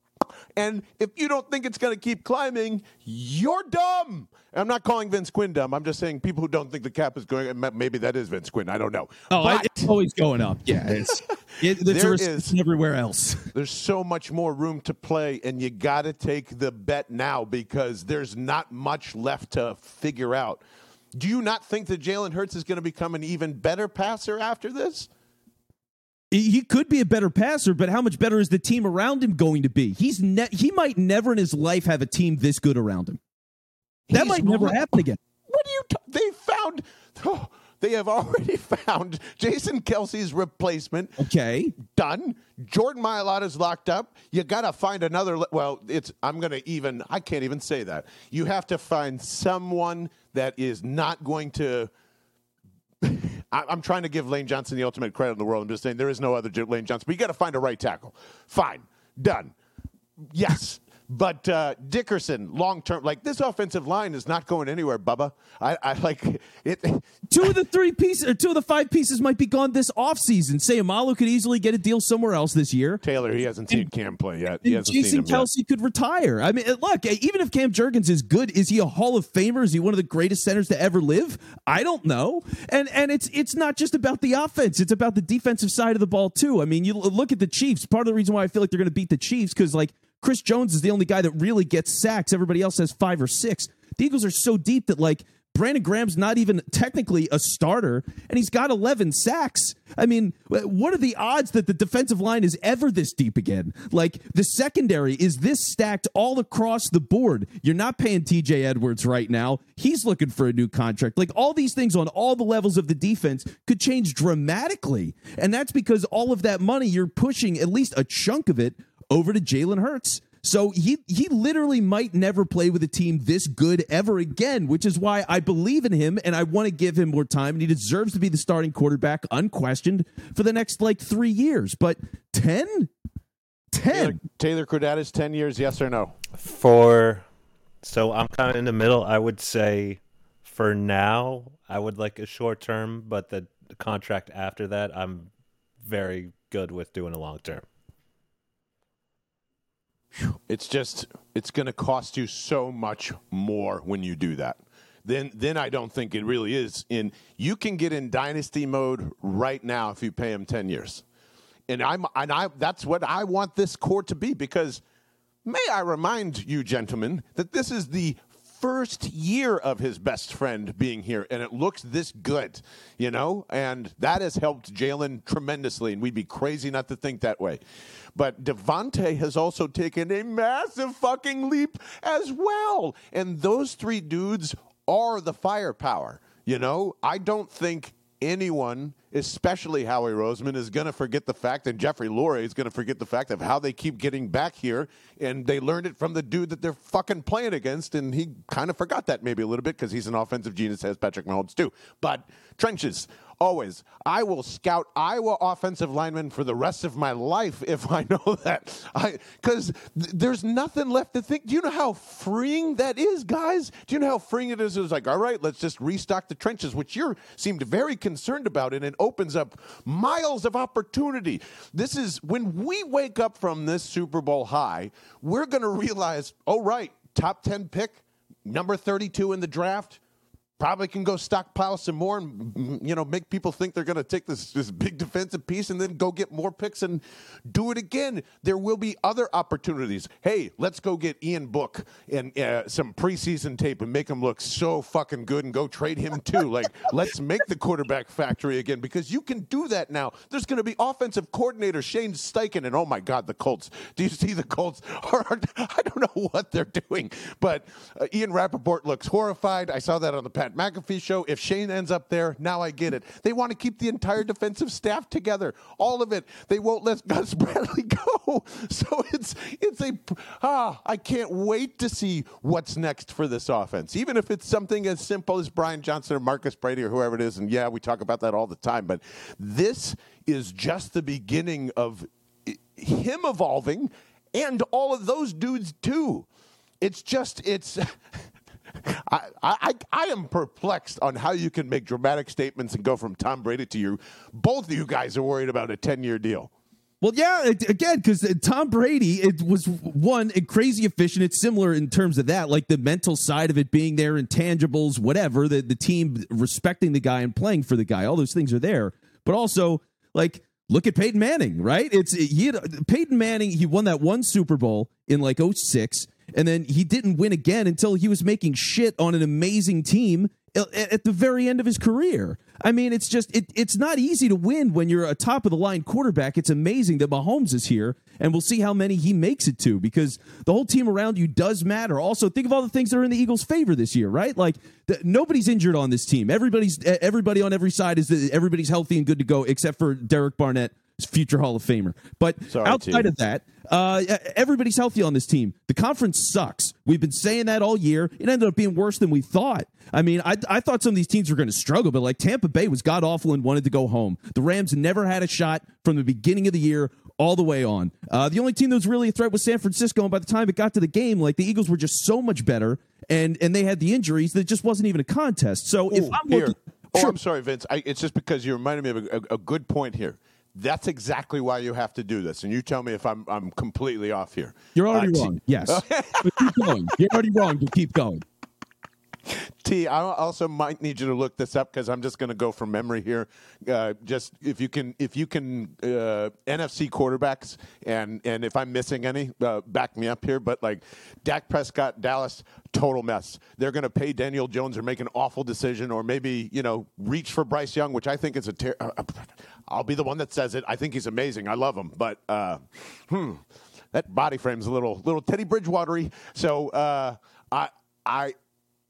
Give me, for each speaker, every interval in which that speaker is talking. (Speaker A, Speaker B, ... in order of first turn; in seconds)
Speaker A: 0.5-9.9, 10.8-12.6, 13.5-20.6, 21.1-25.1, 34.1-41.2, 41.8-51.9, 53.0-59.5, 60.3-67.5, 73.0-75.5, 133.9-136.1, 150.1-161.0, 161.7-164.8, 165.4-177.6, 178.1-230.0, 230.6-286.3, 286.8-288.0, 288.8-296.5, 342.5-343.1, 365.9-377.4, 379.3-408.3
Speaker B: 9.3-13.5, 26.3-33.2, 34.1-35.2, 41.2-41.7, 67.3-73.0, 74.6-132.9, 133.7-134.2, 297.0-367.2, 374.7-378.2
Speaker C: 136.4-137.2, 137.8-145.3, 145.8-147.6